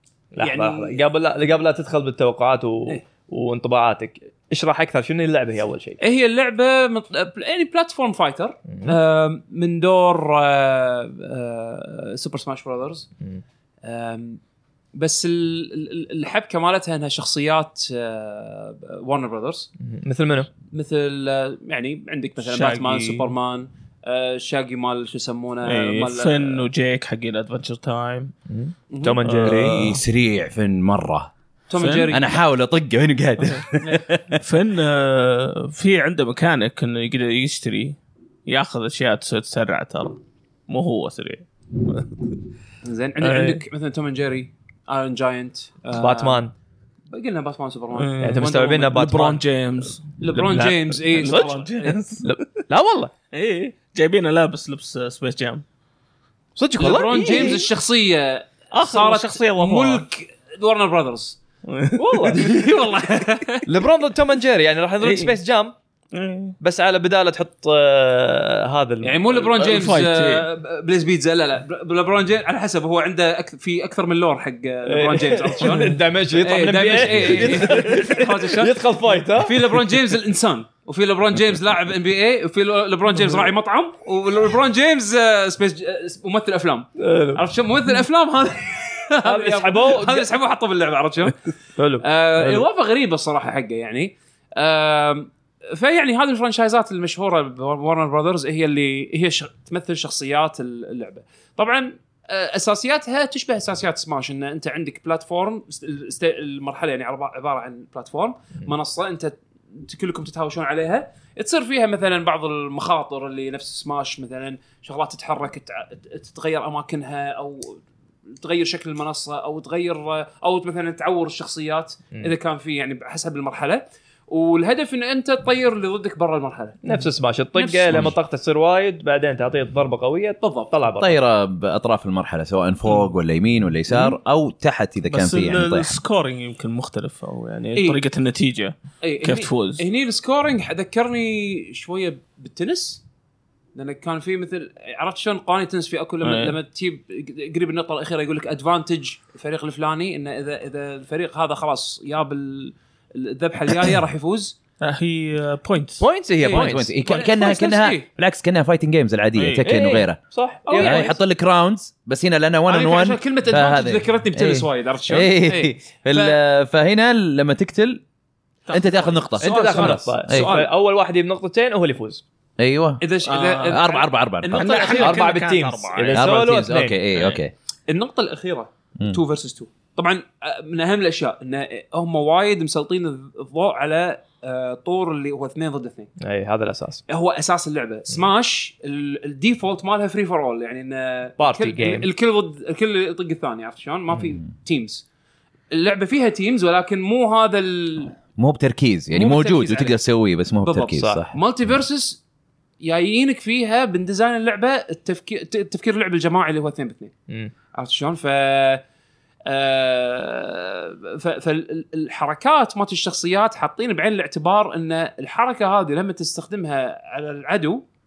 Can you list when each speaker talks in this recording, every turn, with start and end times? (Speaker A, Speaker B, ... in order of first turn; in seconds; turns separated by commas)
Speaker A: 0.3-6.0, Speaker B: 0.4-1.0, Speaker B: 6.0-13.1, Speaker A: 8.7-9.0, Speaker B: 13.8-14.4, Speaker B: 14.9-19.7, Speaker A: 19.8-20.5, Speaker B: 20.7-26.7, Speaker C: 22.4-23.3, Speaker C: 25.6-28.3, Speaker A: 28.5-29.9, Speaker B: 28.9-29.2, Speaker C: 29.2-30.0, Speaker D: 29.4-31.3, Speaker B: 31.7-32.3, Speaker C: 31.7-32.1, Speaker D: 32.1-34.4, Speaker C: 34.4-42.3, Speaker B: 42.8-46.4, Speaker C: 43.2-43.6, Speaker A: 45.9-46.5, Speaker B: 47.1-48.9, Speaker C: 48.0-52.3, Speaker A: 48.2-49.4, Speaker B: 50.2-52.0, Speaker A: 50.3-51.5, Speaker A: 52.2-53.1, Speaker C: 53.3-55.6, Speaker A: 56.6-57.6, Speaker B: 56.8-61.4, Speaker C: 57.2-57.6, Speaker C: 58.7-60.0, Speaker C: 61.7-62.5, Speaker A: 62.0-62.5, Speaker B: 62.3-63.6, Speaker A: 63.6-65.7, Speaker C: 65.0-65.3, Speaker C: 66.1-66.5, Speaker A: 66.6-69.2, Speaker B: 69.0-91.3, Speaker C: 69.4-70.5, Speaker A: 74.9-79.8, Speaker A: 87.0-87.4, Speaker A: 89.2-90.3, Speaker A: 91.8-92.6, Speaker B: 92.0-117.8, Speaker B: 118.3-126.9, Speaker A: 126.8-131.2, Speaker B: 127.5-128.1, Speaker B: 130.4-130.7, Speaker D: 131.0-135.9, Speaker C: 135.1-139.8, Speaker B: 137.7-138.0, Speaker B: 139.0-143.0, Speaker B: 143.7-154.6, Speaker C: 146.2-146.5, Speaker C: 154.8-156.0, Speaker A: 156.0-156.9, Speaker B: 156.4-158.1, Speaker D: 156.5-160.2, Speaker C: 159.3-159.7, Speaker A: 159.6-161.1, Speaker B: 160.7-161.2, Speaker D: 160.8-168.0, Speaker B: 162.7-166.4, Speaker C: 168.7-169.3, Speaker D: 168.7-170.5, Speaker B: 169.4-170.7, Speaker A: 169.4-172.2, Speaker D: 172.6-173.0, Speaker B: 173.0-175.3, Speaker C: 173.2-173.8, Speaker D: 173.7-175.0, Speaker C: 174.5-176.3, Speaker A: 175.0-176.9, Speaker D: 176.1-177.5, Speaker C: 177.1-177.4, Speaker B: 177.9-186.1, Speaker A: 186.2-187.0, Speaker B: 187.1-195.0, Speaker A: 191.4-192.1, Speaker B: 195.7-198.2, Speaker D: 198.4-201.3, Speaker B: 199.1-200.0, Speaker B: 200.6-202.2, Speaker B: 202.8-207.1, Speaker B: 207.7-208.8, Speaker B: 209.4-217.8